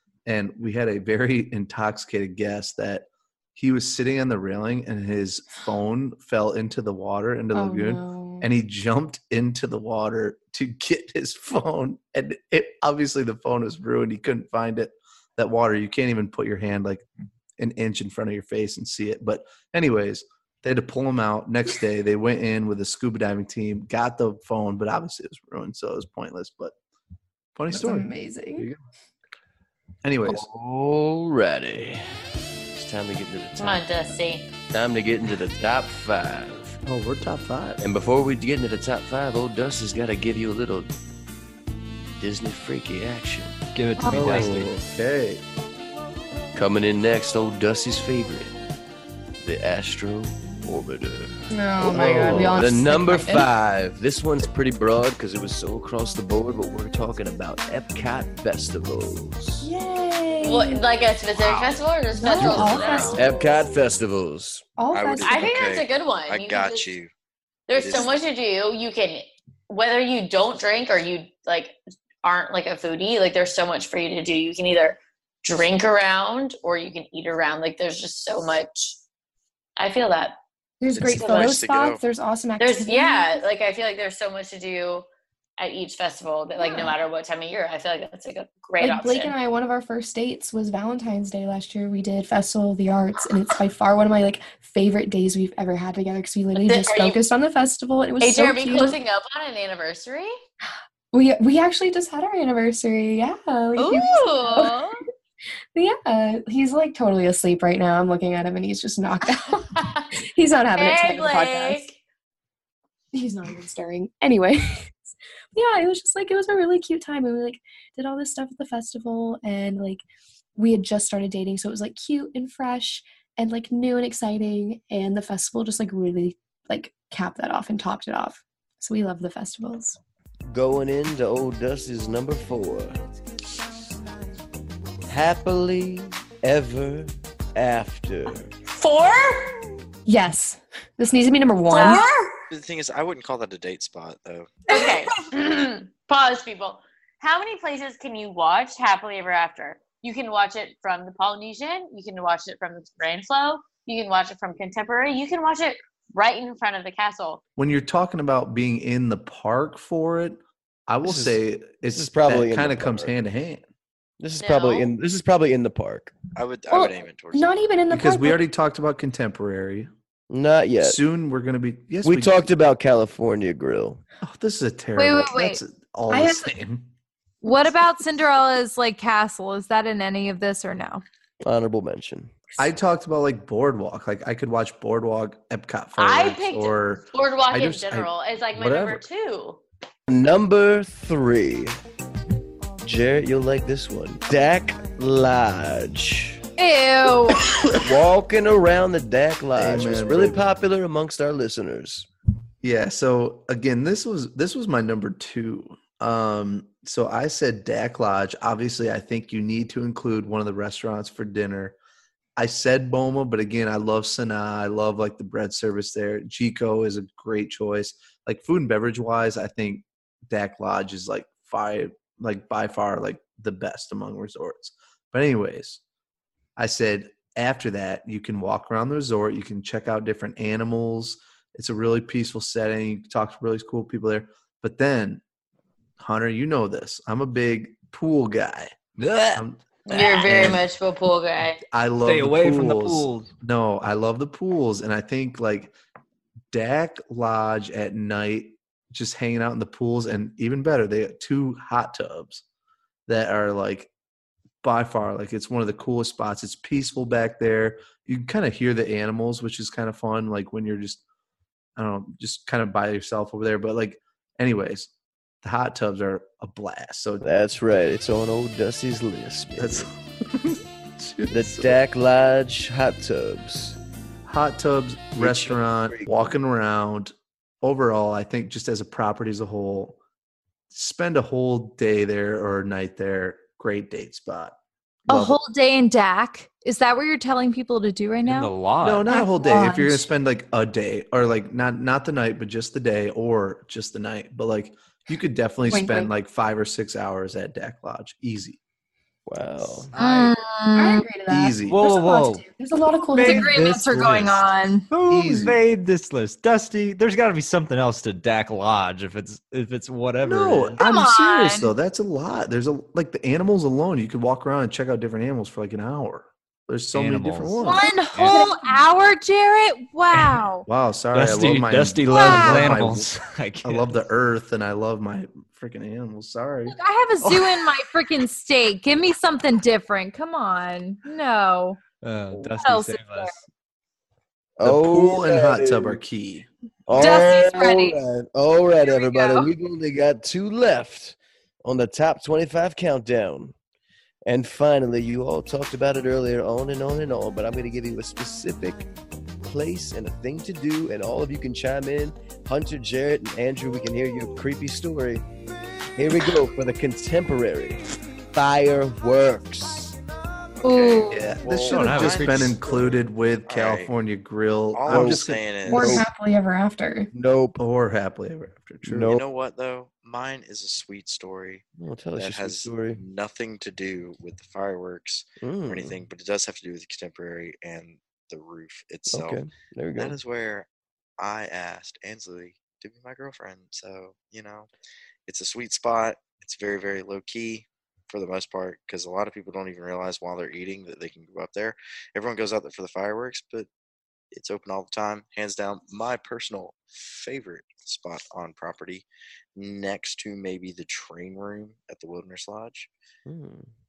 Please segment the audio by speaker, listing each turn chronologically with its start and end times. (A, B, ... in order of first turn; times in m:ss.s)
0:00.3-0:17.0 A
0:07.5-0:08.5 B
0:17.6-0:26.7 A
0:27.6-0:28.8 A
0:27.7-0:28.7 B
0:30.0-0:30.5 A
0:30.3-0:32.0 C
0:32.7-0:33.8 C
0:33.6-0:34.5 D
0:34.7-0:36.8 C
0:36.8-0:37.8 A
0:37.8-0:40.9 C
0:42.2-0:43.6 C
0:43.7-0:44.7 E
0:44.0-0:44.3 B
0:44.1-0:45.4 A
0:46.5-0:48.5 C
0:49.4-0:59.7 C
0:51.5-0:53.5 B
0:51.9-0:52.6 A
0:59.6-1:00.8 B
1:00.4-1:03.2 D
1:01.4-1:01.8 F
1:02.2-1:03.4 B
1:02.5-1:04.6 C
1:02.5-1:03.0 E
1:04.8-1:05.6 B
1:04.9-1:07.1 F
1:05.2-1:06.9 D
1:07.7-1:19.0 D
1:07.8-1:08.1 F
1:19.8-1:20.4 D
1:20.8-1:23.4 B
1:21.0-1:22.0 F
1:21.2-1:21.6 D
1:22.6-1:25.1 D
1:25.6-1:29.4 D
1:26.6-1:27.0 B
1:28.8-1:39.0 B
1:36.6-1:37.2 D
1:38.2-1:40.4 D
1:41.1-1:44.8 B
1:43.8-1:45.0 D
1:45.7-1:51.8 B
1:49.6-1:50.1 D
1:50.7-1:52.0 D
1:53.1-2:00.0 B
2:00.6-2:10.0 B
2:10.5-2:13.0 C
2:15.1-2:18.5 C
2:18.7-2:19.6 D
2:20.1-2:22.1 B
2:21.7-2:22.3 D
2:21.7-2:22.1 G
2:22.5-2:24.6 F
2:24.7-2:37.4 D
2:37.6-2:43.7 A
2:41.0-2:43.2 C
2:44.2-2:46.2 C
2:44.4-2:44.9 D
2:46.4-2:47.6 F
2:46.7-2:48.4 B
2:47.9-2:49.9 A
2:50.3-2:51.0 C
2:50.8-2:52.5 A
2:52.0-2:54.0 C
2:54.2-2:56.9 A
2:55.0-2:55.6 G
2:56.1-2:56.5 B
2:57.4-3:01.0 G
3:01.4-3:02.3 C
3:02.6-3:09.0 A
3:06.0-3:09.6 D
3:10.1-3:11.8 C
3:12.8-3:16.4 C
3:16.6-3:17.5 G
3:17.7-3:22.1 C
3:19.6-3:20.5 A
3:22.6-3:31.8 A
3:32.4-3:45.8 A
3:46.6-3:55.2 A
3:56.0-3:58.8 A
3:59.0-3:59.4 E
3:59.3-3:59.6 A
3:59.9-4:01.6 D
4:00.2-4:00.6 E
4:00.2-4:00.6 A
4:01.7-4:05.7 A
4:02.0-4:03.3 E
4:06.5-4:12.4 A
4:13.1-4:13.9 A
4:14.6-4:21.0 A
4:21.8-4:24.9 A
4:25.4-4:27.3 A
4:27.2-4:29.9 C
4:29.6-4:31.8 A
4:31.3-4:33.8 C
4:34.2-4:40.0 A
4:35.2-4:36.3 C
4:40.7-4:44.6 A
4:45.1-4:48.5 G
4:45.1-4:45.4 A
4:48.2-4:49.1 E
4:48.8-4:58.6 A
4:49.1-4:50.1 B
4:55.7-4:56.1 B
4:59.3-4:59.9 C
4:59.9-5:00.3 E
5:00.0-5:01.1 G
5:00.8-5:03.8 B
5:01.3-5:01.8 A
5:01.7-5:02.4 E
5:03.1-5:10.8 E
5:03.2-5:04.9 G
5:05.1-5:05.6 A
5:10.2-5:17.9 A
5:10.8-5:11.7 G
5:16.9-5:18.4 E
5:17.6-5:20.7 G
5:17.7-5:18.8 B
5:20.7-5:26.8 A
5:21.1-5:24.0 E
5:22.1-5:22.8 G
5:26.7-5:31.8 G
5:27.2-5:27.5 E
5:32.0-5:33.4 E
5:32.4-5:33.4 G
5:34.6-5:36.0 C
5:34.6-5:36.5 A
5:36.9-5:43.6 C
5:37.0-5:38.0 G
5:38.8-5:39.5 G
5:44.3-5:48.9 C
5:49.4-5:55.2 C
5:56.0-5:57.8 C
5:58.3-6:00.0 C
6:00.6-6:03.9 F
6:00.6-6:01.3 G
6:01.1-6:05.5 A
6:01.6-6:02.6 E
6:04.7-6:06.0 F
6:04.9-6:06.1 C
6:05.7-6:07.1 B
6:07.1-6:07.6 C
6:07.6-6:09.1 A
6:08.8-6:09.2 C
6:09.1-6:19.4 F
6:11.8-6:13.0 C
6:15.4-6:16.0 C
6:19.1-6:20.2 C
6:20.0-6:20.7 F
6:21.2-6:24.7 F
6:25.3-6:33.7 F
6:34.3-6:42.9 F
6:43.3-6:43.7 C